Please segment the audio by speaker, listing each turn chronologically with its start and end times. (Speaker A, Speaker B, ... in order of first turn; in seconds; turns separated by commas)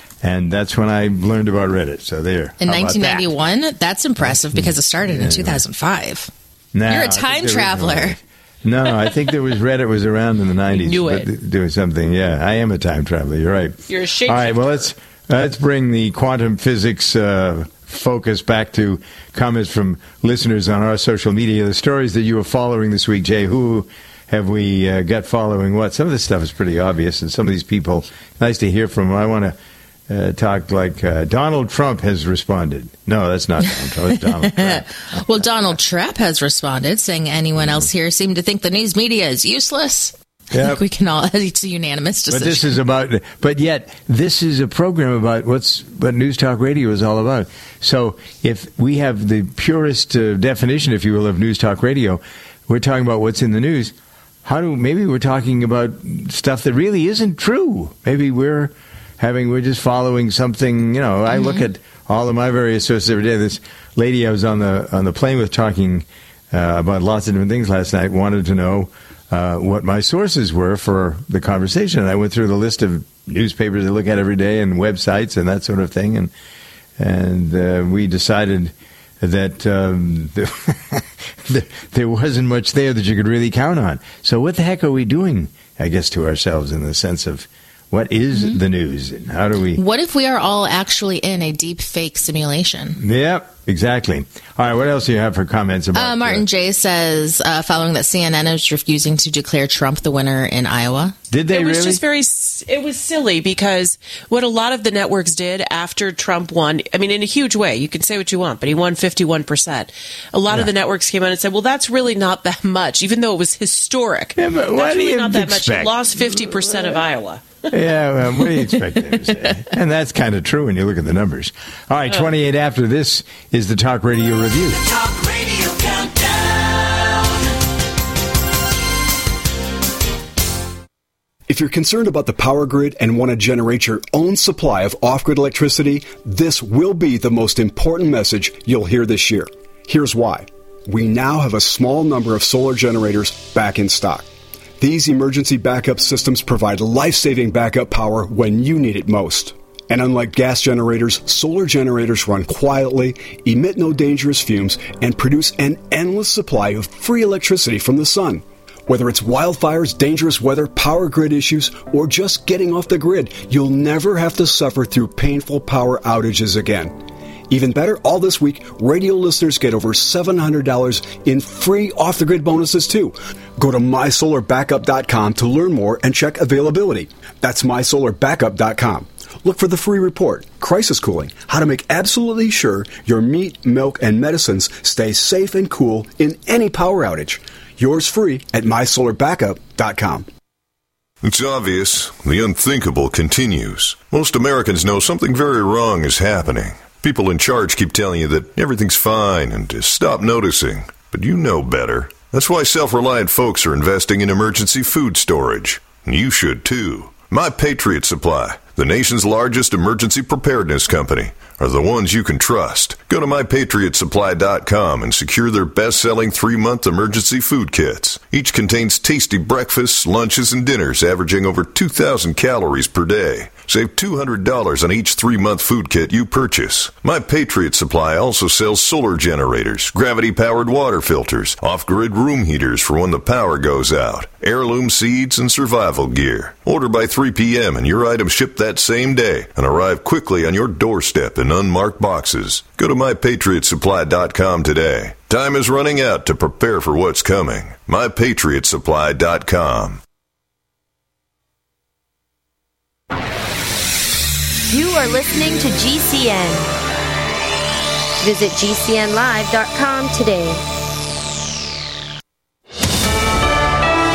Speaker A: 0.2-3.3, Speaker B: 2.6-6.3, Speaker A: 4.2-5.6, Speaker A: 6.7-29.6, Speaker B: 6.9-8.2, Speaker C: 10.7-11.3, Speaker C: 13.9-14.9, Speaker A: 30.1-35.6, Speaker B: 33.7-42.8, Speaker A: 37.6-37.9, Speaker A: 40.5-40.8, Speaker A: 42.3-53.9, Speaker A: 54.4-76.3, Speaker B: 61.3-61.6, Speaker A: 77.0-89.8, Speaker B: 88.3-88.6, Speaker B: 89.8-93.0, Speaker A: 93.0-96.5, Speaker B: 95.9-101.2, Speaker A: 101.3-102.0, Speaker C: 101.5-117.7, Speaker A: 114.4-117.0, Speaker A: 117.7-124.8, Speaker C: 118.4-119.2, Speaker D: 131.5-144.3, Speaker D: 144.8-166.9, Speaker D: 167.5-190.2, Speaker E: 191.2-250.0, Speaker F: 254.7-256.7, Speaker F: 258.2-260.6